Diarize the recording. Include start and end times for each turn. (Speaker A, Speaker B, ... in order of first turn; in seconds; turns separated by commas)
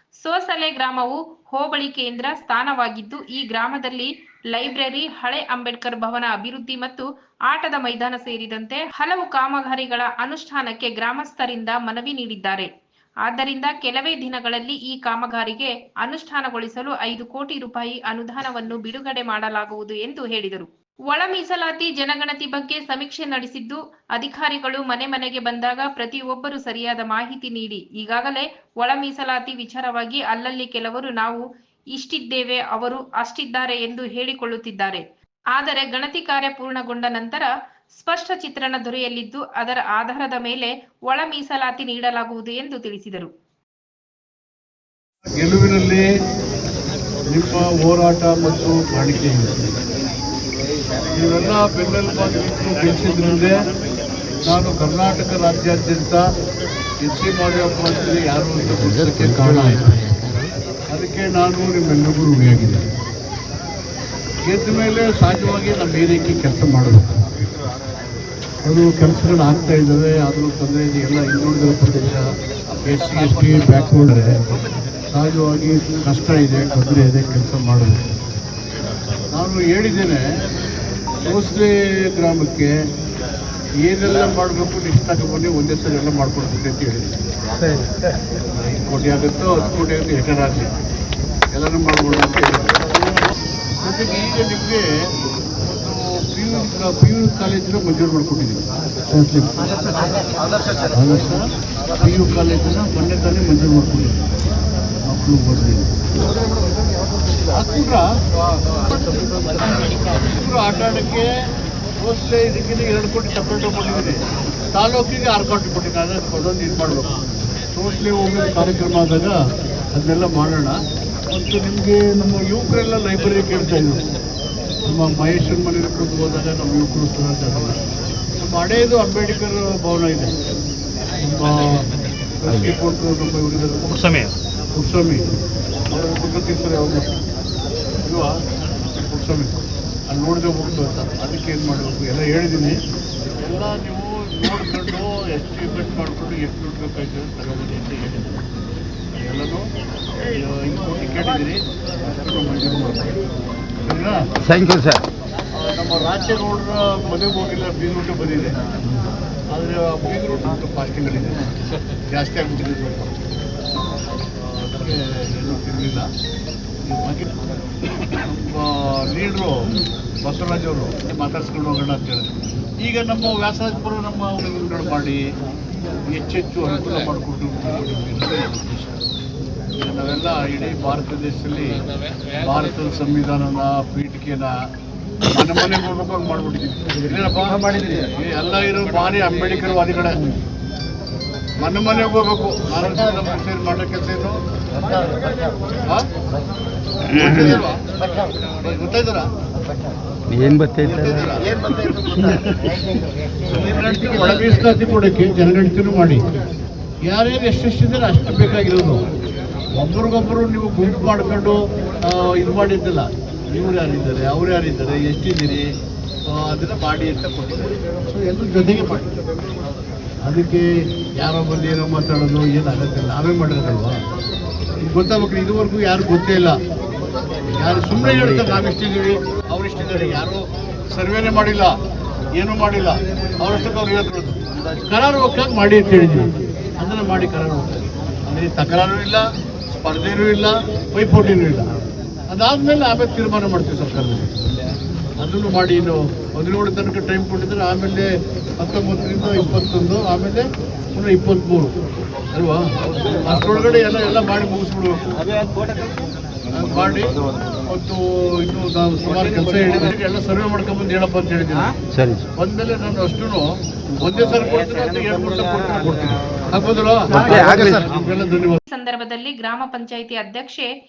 Speaker A: 0.2-12.7, Speaker A: 13.3-35.0, Speaker A: 35.5-43.3, Speaker B: 45.4-46.1, Speaker B: 47.3-49.7, Speaker B: 51.1-53.5, Speaker B: 54.5-56.2, Speaker B: 57.0-60.0, Speaker B: 60.9-62.8, Speaker B: 64.5-67.2, Speaker B: 68.7-72.3, Speaker B: 72.8-74.4, Speaker B: 75.1-78.0, Speaker B: 79.3-80.2, Speaker B: 81.2-82.7, Speaker B: 83.8-87.2, Speaker B: 88.6-90.7, Speaker B: 91.5-92.7, Speaker B: 93.8-94.9, Speaker B: 95.7-99.4, Speaker B: 100.9-101.4, Speaker B: 102.0-104.2, Speaker B: 105.1-106.0, Speaker B: 107.5-108.0, Speaker B: 110.3-111.3, Speaker B: 112.0-114.2, Speaker B: 114.8-117.2, Speaker B: 117.8-119.4, Speaker B: 120.0-120.8, Speaker B: 121.3-124.0, Speaker B: 124.9-127.8, Speaker B: 128.4-130.3, Speaker B: 131.2-131.8, Speaker B: 132.4-134.2, Speaker B: 134.8-135.2, Speaker B: 135.9-137.1, Speaker B: 138.1-138.3, Speaker B: 139.0-139.6, Speaker B: 140.1-142.8, Speaker B: 143.4-148.4, Speaker B: 149.2-149.7, Speaker B: 150.3-153.1, Speaker B: 153.9-154.2, Speaker C: 154.4-155.0, Speaker B: 155.6-158.6, Speaker B: 159.5-161.4, Speaker B: 162.1-163.2, Speaker B: 164.4-166.1, Speaker B: 166.9-167.3, Speaker B: 168.1-169.6, Speaker B: 170.2-175.2, Speaker B: 176.0-179.0, Speaker B: 179.8-181.7, Speaker B: 182.4-184.5, Speaker B: 185.3-190.3, Speaker B: 191.6-194.4, Speaker B: 197.1-197.8, Speaker B: 198.6-199.3, Speaker C: 200.3-201.3, Speaker B: 200.8-206.2, Speaker B: 207.0-209.0, Speaker B: 209.8-215.7, Speaker B: 216.3-219.1, Speaker B: 220.2-220.7, Speaker B: 221.2-224.0, Speaker B: 224.9-226.6, Speaker B: 227.6-231.7, Speaker C: 228.1-228.6, Speaker B: 232.4-241.7, Speaker B: 242.3-244.3, Speaker B: 245.2-251.7, Speaker B: 252.3-255.0, Speaker B: 256.5-261.8, Speaker C: 261.9-262.2, Speaker B: 262.4-268.6, Speaker C: 267.2-267.9, Speaker A: 268.7-270.7